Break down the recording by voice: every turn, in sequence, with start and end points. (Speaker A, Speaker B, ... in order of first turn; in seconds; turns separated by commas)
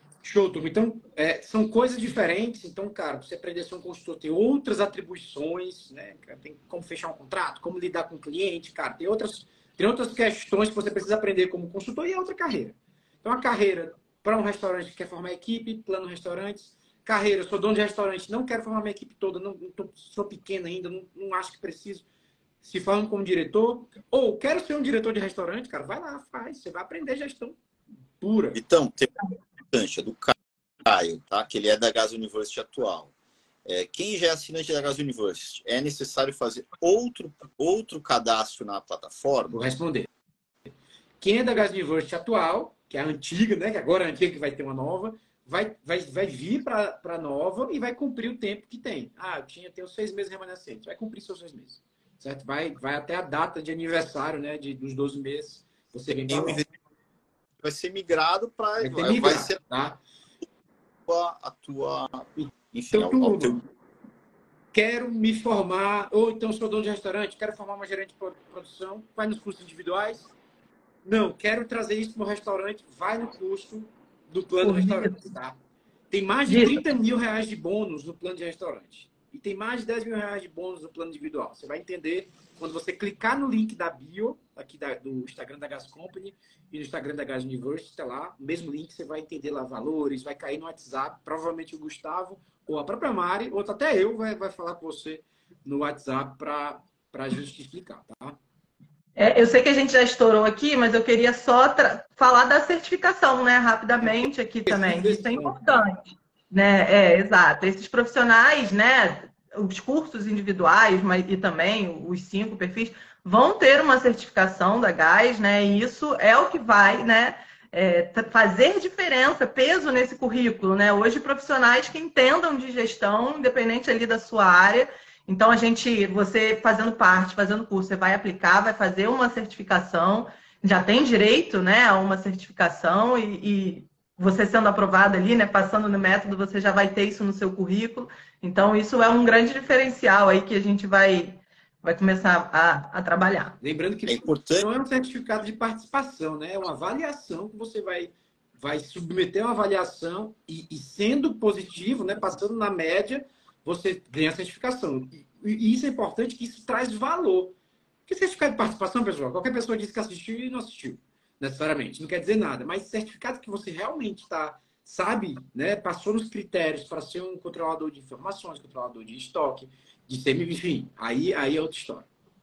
Speaker A: 0.2-22.1, Speaker A: 22.6-27.6, Speaker A: 28.2-28.6, Speaker B: 28.5-29.1, Speaker B: 29.7-33.1, Speaker B: 33.6-39.6, Speaker A: 39.5-40.1, Speaker A: 41.2-56.6, Speaker B: 56.3-56.7, Speaker B: 57.6-59.6, Speaker A: 58.8-60.0, Speaker B: 61.1-63.6, Speaker A: 62.4-63.6, Speaker A: 64.7-70.3, Speaker A: 71.0-75.6, Speaker C: 74.6-75.2, Speaker A: 76.1-98.4, Speaker C: 76.5-76.8, Speaker C: 99.2-143.6, Speaker A: 104.0-105.8, Speaker A: 143.6-172.1, Speaker B: 144.1-144.7